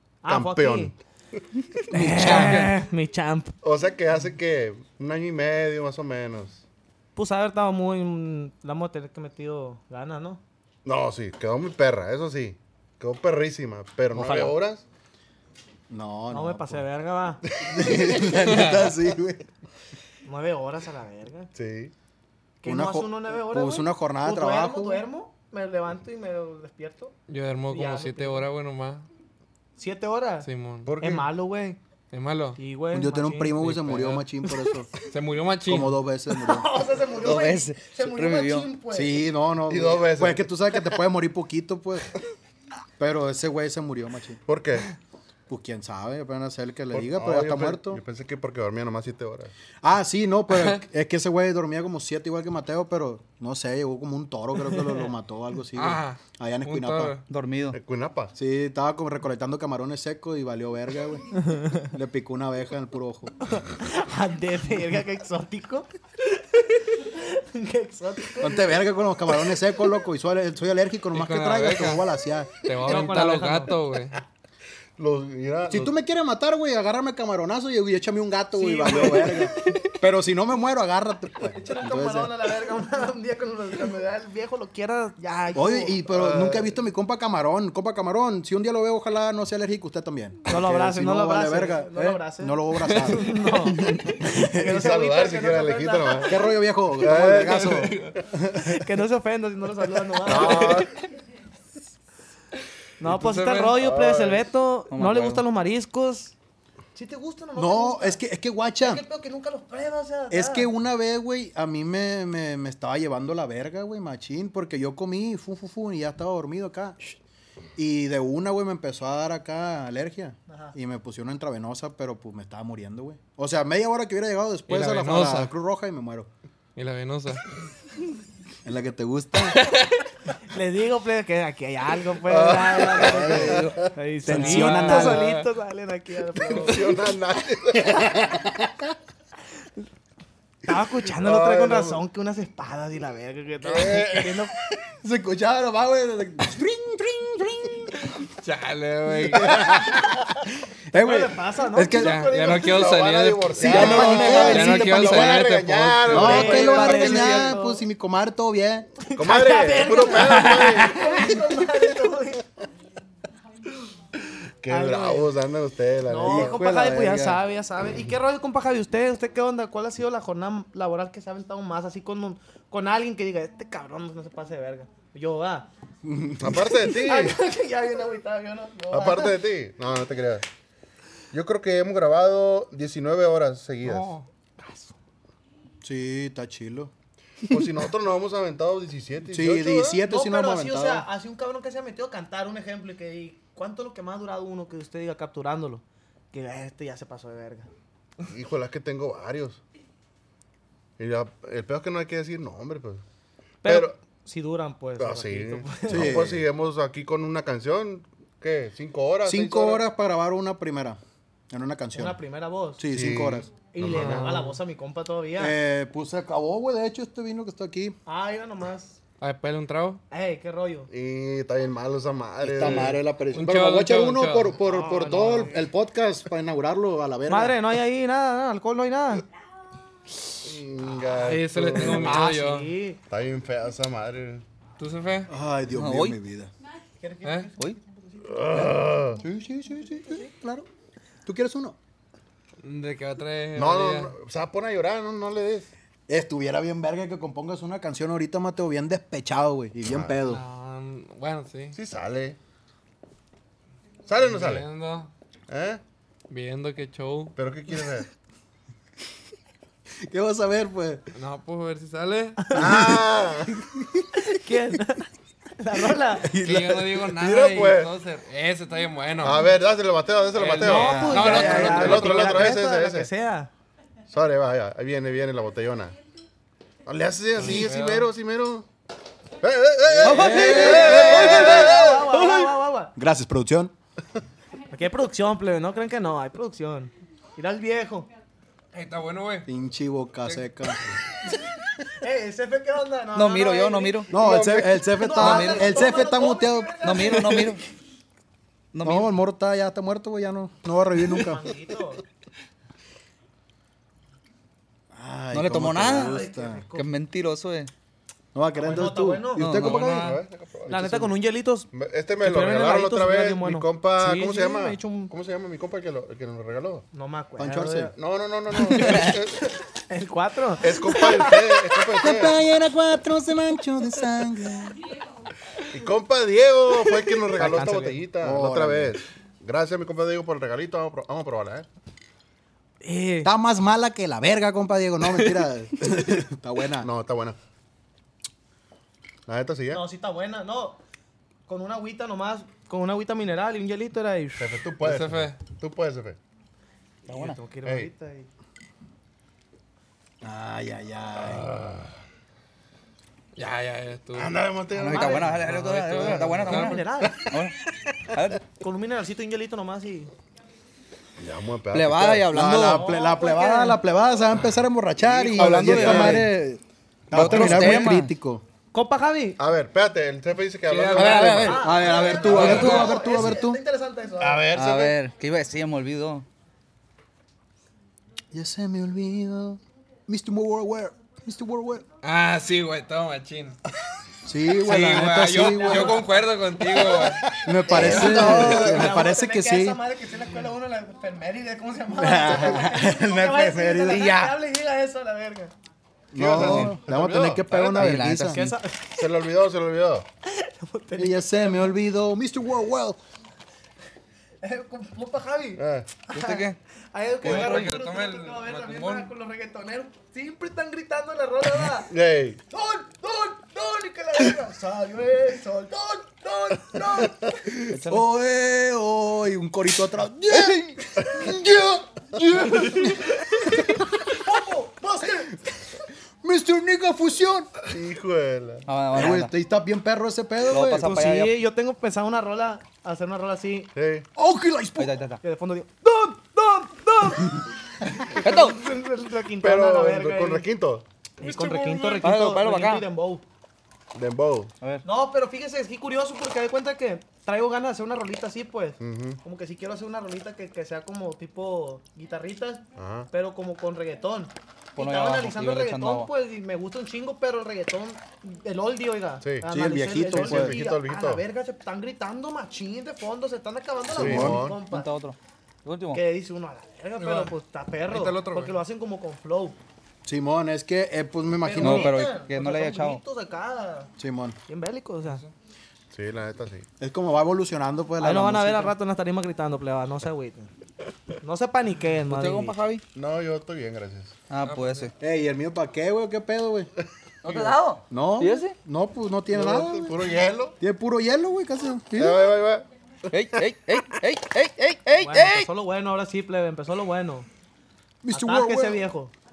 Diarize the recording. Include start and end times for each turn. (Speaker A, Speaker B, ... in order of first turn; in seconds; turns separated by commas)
Speaker A: 0.2-0.9, Speaker B: 0.3-0.9, Speaker A: 1.9-3.5, Speaker C: 1.9-2.7, Speaker B: 3.6-6.6, Speaker A: 7.2-10.4, Speaker B: 10.8-14.8, Speaker D: 14.2-14.5, Speaker D: 15.9-16.8, Speaker A: 16.3-17.4, Speaker B: 17.6-18.2, Speaker D: 17.6-19.5, Speaker E: 18.3-18.9, Speaker A: 20.3-21.5, Speaker B: 21.5-21.9, Speaker A: 22.6-27.1, Speaker D: 22.6-25.0, Speaker E: 27.3-29.1, Speaker A: 27.7-28.4, Speaker A: 29.8-30.5, Speaker E: 30.4-30.9, Speaker B: 30.9-31.3, Speaker A: 31.0-31.8, Speaker E: 32.1-32.6, Speaker A: 32.6-33.6, Speaker D: 32.9-34.9, Speaker E: 33.6-34.3, Speaker E: 35.0-36.0, Speaker D: 35.7-36.7, Speaker A: 36.3-39.2, Speaker C: 37.2-38.7, Speaker D: 38.9-42.1, Speaker B: 39.7-40.9, Speaker D: 43.0-44.4, Speaker B: 44.5-44.9, Speaker D: 45.5-48.0, Speaker B: 46.9-49.5, Speaker D: 49.8-57.2, Speaker A: 54.7-55.1, Speaker E: 55.8-57.2, Speaker C: 57.3-57.8, Speaker B: 57.7-58.3, Speaker D: 58.4-63.3, Speaker A: 61.4-61.9, Speaker A: 63.4-68.8, Speaker D: 68.4-72.7, Speaker E: 71.1-72.0, Speaker E: 72.6-74.2, Speaker A: 72.8-73.7, Speaker B: 75.0-75.9, Speaker D: 75.7-82.3, Speaker A: 78.6-79.8, Speaker A: 81.4-86.0, Speaker D: 85.5-93.3, Speaker B: 86.1-86.7, Speaker A: 90.5-96.4, Speaker E: 92.9-93.2, Speaker D: 94.2-94.7, Speaker B: 94.6-96.5, Speaker D: 96.3-98.8, Speaker B: 97.0-98.1, Speaker E: 97.6-97.9, Speaker A: 98.6-100.9, Speaker B: 100.2-100.9, Speaker A: 103.0-106.3, Speaker E: 103.0-103.8, Speaker B: 103.8-104.5, Speaker C: 104.9-105.4, Speaker A: 107.0-108.2, Speaker D: 107.6-109.0, Speaker A: 108.8-110.7, Speaker D: 110.3-117.2, Speaker D: 117.8-126.3, Speaker A: 120.5-120.8, Speaker E: 124.7-125.5, Speaker E: 126.8-127.4, Speaker D: 128.7-129.7, Speaker E: 129.5-129.9, Speaker A: 130.5-137.0, Speaker B: 132.3-133.9, Speaker D: 133.0-135.3, Speaker C: 133.3-133.7, Speaker E: 134.3-135.5, Speaker B: 136.5-138.2, Speaker D: 137.8-138.9, Speaker A: 140.7-144.5, Speaker B: 141.1-142.0, Speaker B: 143.6-144.5, Speaker D: 145.0-148.0, Speaker E: 148.3-149.8, Speaker D: 149.3-150.2, Speaker D: 150.9-152.3, Speaker A: 150.9-152.9, Speaker E: 152.0-156.8, Speaker B: 152.5-157.5, Speaker D: 153.6-155.5, Speaker C: 153.7-154.6, Speaker A: 153.8-154.6, Speaker D: 156.1-158.9, Speaker A: 156.2-157.8, Speaker A: 159.0-162.5, Speaker B: 159.2-161.3, Speaker B: 164.6-166.6, Speaker A: 164.7-165.3, Speaker A: 166.1-175.7, Speaker D: 166.2-167.4, Speaker D: 176.0-176.7, Speaker B: 176.4-177.4, Speaker A: 176.7-179.4, Speaker B: 178.9-180.4, Speaker B: 181.3-184.2, Speaker E: 183.8-184.2, Speaker D: 185.8-186.9, Speaker B: 187.5-190.0, Speaker D: 189.3-191.1, Speaker A: 190.1-197.7, Speaker B: 198.3-199.6, Speaker B: 201.0-203.0, Speaker A: 203.6-206.2, Speaker B: 203.6-204.0, Speaker B: 205.0-209.8, Speaker D: 205.9-206.4, Speaker D: 209.2-211.0, Speaker D: 211.5-212.2, Speaker A: 211.9-212.8, Speaker D: 212.8-213.5, Speaker B: 212.9-214.5, Speaker A: 213.7-215.6, Speaker E: 213.9-214.5, Speaker D: 215.4-218.0, Speaker A: 218.1-219.0, Speaker E: 219.2-220.0, Speaker A: 220.1-220.9, Speaker B: 220.9-223.0, Speaker D: 222.4-227.6, Speaker E: 222.6-224.6, Speaker A: 224.6-225.6, Speaker A: 227.3-229.2, Speaker B: 230.4-232.3, Speaker E: 231.1-232.7, Speaker A: 231.8-233.0, Speaker B: 233.1-234.4, Speaker E: 234.8-235.3, Speaker D: 235.3-236.5, Speaker C: 235.7-236.2, Speaker A: 237.0-238.7, Speaker E: 237.2-237.5, Speaker B: 238.3-239.2, Speaker D: 239.2-240.7, Speaker D: 241.3-241.8, Speaker E: 242.6-244.1, Speaker B: 243.6-245.7, Speaker D: 246.1-250.4, Speaker B: 249.9-250.2, Speaker E: 250.2-251.8, Speaker B: 251.7-252.4, Speaker B: 254.1-254.7, Speaker E: 254.2-255.1, Speaker B: 255.5-255.8, Speaker E: 256.3-257.4, Speaker B: 257.4-258.1, Speaker D: 260.0-261.0, Speaker E: 261.1-262.6, Speaker A: 262.4-262.9, Speaker B: 262.5-263.6, Speaker D: 263.6-264.1, Speaker A: 264.2-266.4, Speaker D: 266.2-267.0, Speaker E: 266.3-269.5, Speaker B: 267.1-267.9, Speaker B: 269.2-273.1, Speaker E: 270.3-272.4, Speaker A: 270.6-273.5, Speaker D: 271.1-271.8, Speaker B: 274.1-275.9, Speaker B: 276.9-278.7, Speaker E: 277.4-278.1, Speaker B: 279.4-282.0, Speaker D: 279.9-283.7, Speaker C: 280.1-281.1, Speaker A: 280.2-282.9, Speaker E: 280.4-281.0, Speaker A: 284.7-288.1, Speaker E: 288.7-289.5, Speaker D: 289.5-290.8, Speaker A: 291.9-297.6, Speaker C: 293.1-294.1, Speaker D: 294.1-297.0, Speaker B: 294.1-294.8, Speaker C: 295.2-295.7, Speaker C: 296.8-297.6, Speaker C: 298.7-299.1, Speaker D: 298.8-301.4, Speaker A: 301.1-302.0, Speaker D: 304.9-306.6, Speaker C: 305.3-306.2, Speaker A: 305.9-306.9, Speaker C: 306.7-307.7, Speaker D: 308.3-310.1, Speaker A: 308.6-309.6, Speaker C: 309.4-309.9, Speaker E: 309.5-310.2, Speaker B: 309.7-311.1, Speaker A: 310.7-315.1, Speaker B: 311.7-316.9, Speaker A: 316.9-317.9, Speaker D: 317.4-317.9, Speaker B: 318.0-319.4, Speaker A: 318.7-322.0, Speaker B: 320.6-322.4, Speaker D: 322.0-324.8, Speaker B: 325.7-331.7, Speaker A: 327.3-328.0, Speaker D: 328.2-329.0, Speaker A: 332.8-333.3, Speaker D: 333.2-336.9, Speaker B: 336.8-337.4, Speaker B: 339.3-339.8, Speaker A: 339.7-340.8, Speaker A: 341.5-344.5, Speaker B: 344.4-346.2, Speaker E: 344.8-345.4, Speaker A: 347.1-348.3, Speaker C: 347.1-347.4, Speaker B: 347.6-347.9, Speaker D: 350.2-351.6, Speaker B: 351.2-351.9, Speaker E: 353.4-354.3, Speaker B: 354.2-355.5, Speaker C: 354.7-357.6, Speaker A: 354.9-355.3, Speaker E: 355.4-356.8, Speaker A: 356.4-357.3, Speaker C: 358.1-358.4, Speaker A: 358.6-360.1, Speaker B: 361.2-362.3, Speaker C: 361.7-362.9, Speaker D: 362.3-368.4, Speaker A: 362.6-363.8, Speaker B: 365.0-366.2, Speaker C: 365.3-366.3, Speaker C: 367.1-368.1, Speaker B: 367.1-367.9, Speaker A: 368.7-369.4, Speaker B: 369.4-372.8, Speaker E: 370.7-371.6, Speaker C: 370.9-371.6, Speaker D: 371.1-373.6, Speaker A: 371.3-374.5, Speaker E: 372.2-373.0, Speaker B: 374.2-375.0, Speaker C: 374.5-376.3, Speaker D: 378.3-381.9, Speaker E: 382.0-383.6, Speaker D: 384.2-386.1, Speaker E: 384.6-387.3, Speaker A: 385.4-386.2, Speaker D: 387.3-389.8, Speaker A: 387.7-395.5, Speaker B: 387.7-388.9, Speaker D: 391.9-394.4, Speaker D: 396.1-398.5, Speaker B: 396.1-397.9, Speaker C: 396.3-396.8, Speaker C: 397.5-398.5, Speaker A: 398.2-399.1, Speaker B: 399.0-400.1, Speaker A: 400.2-401.8, Speaker D: 401.0-403.0, Speaker A: 404.4-411.9, Speaker B: 405.6-405.9, Speaker C: 406.1-406.6, Speaker E: 407.2-409.1, Speaker C: 407.3-407.7, Speaker B: 411.9-412.4, Speaker A: 412.5-418.0, Speaker D: 417.7-423.9, Speaker B: 421.1-421.4, Speaker B: 422.2-423.0, Speaker A: 424.1-425.4, Speaker D: 426.2-427.5, Speaker B: 427.7-428.7, Speaker C: 428.7-429.3, Speaker D: 428.9-430.9, Speaker C: 430.5-431.4, Speaker A: 430.8-433.7, Speaker B: 433.8-434.1, Speaker D: 434.2-435.0, Speaker C: 434.8-435.2, Speaker A: 435.2-440.5, Speaker C: 438.2-438.6, Speaker B: 439.4-440.9, Speaker A: 441.2-443.2, Speaker C: 442.0-442.9, Speaker B: 443.9-444.5, Speaker A: 444.8-464.9, Speaker B: 448.8-449.2, Speaker B: 452.8-453.1, Speaker C: 454.8-456.1, Speaker B: 459.2-459.5, Speaker D: 459.5-460.6, Speaker B: 460.0-461.2, Speaker D: 463.9-464.5, Speaker B: 463.9-464.6, Speaker C: 464.6-466.0, Speaker A: 465.9-469.6, Speaker E: 467.0-467.3, Speaker E: 467.9-468.6, Speaker D: 470.1-472.0, Speaker A: 471.4-473.9, Speaker C: 471.6-473.0, Speaker D: 474.0-474.4, Speaker A: 474.5-475.2, Speaker B: 475.9-476.7, Speaker D: 476.8-478.8, Speaker A: 478.0-480.5, Speaker A: 481.2-482.6, Speaker C: 482.1-482.8, Speaker B: 482.9-484.2, Speaker C: 484.3-484.9, Speaker E: 484.4-484.9, Speaker D: 485.0-486.7, Speaker C: 487.2-488.6, Speaker D: 487.9-490.0, Speaker B: 489.3-490.6, Speaker D: 490.6-492.3, Speaker B: 492.0-492.7, Speaker C: 493.1-495.5, Speaker A: 495.0-497.3, Speaker D: 498.0-498.8, Speaker A: 498.1-499.1